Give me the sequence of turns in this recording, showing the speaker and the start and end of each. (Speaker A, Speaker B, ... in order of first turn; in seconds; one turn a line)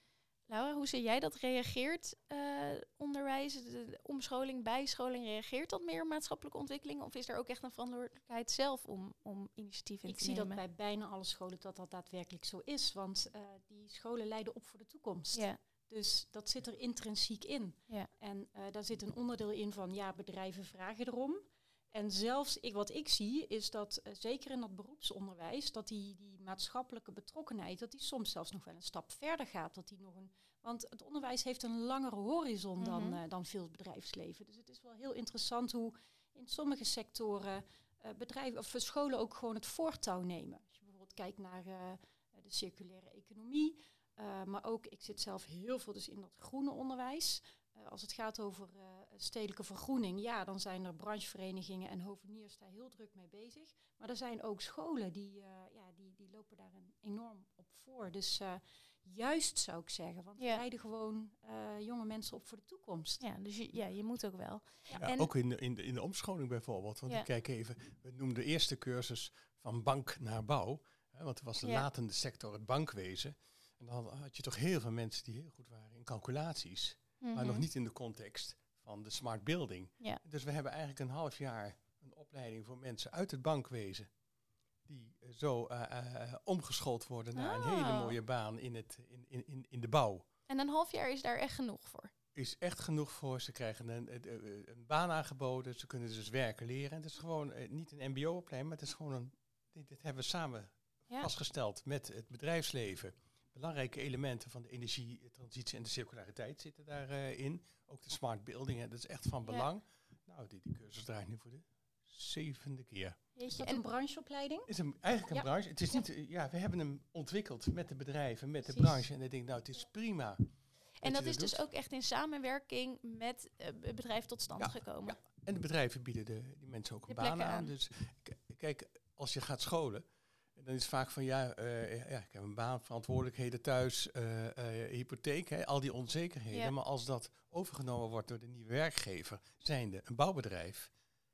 Speaker A: 0.5-10.6
Speaker B: 10.1-63.2
Speaker A: 32.8-33.2
Speaker A: 63.2-65.3
Speaker C: 64.9-84.1
Speaker A: 77.2-77.7
Speaker C: 84.9-90.2
Speaker A: 87.3-88.2
Speaker A: 90.5-92.1
Speaker C: 92.3-113.2
Speaker A: 113.3-113.8
Speaker B: 113.5-114.7
Speaker C: 114.7-120.4
Speaker B: 118.6-119.0
Speaker A: 121.0-125.2
Speaker C: 121.0-121.7
Speaker C: 124.6-130.0
Speaker A: 127.1-127.7
Speaker C: 130.6-140.9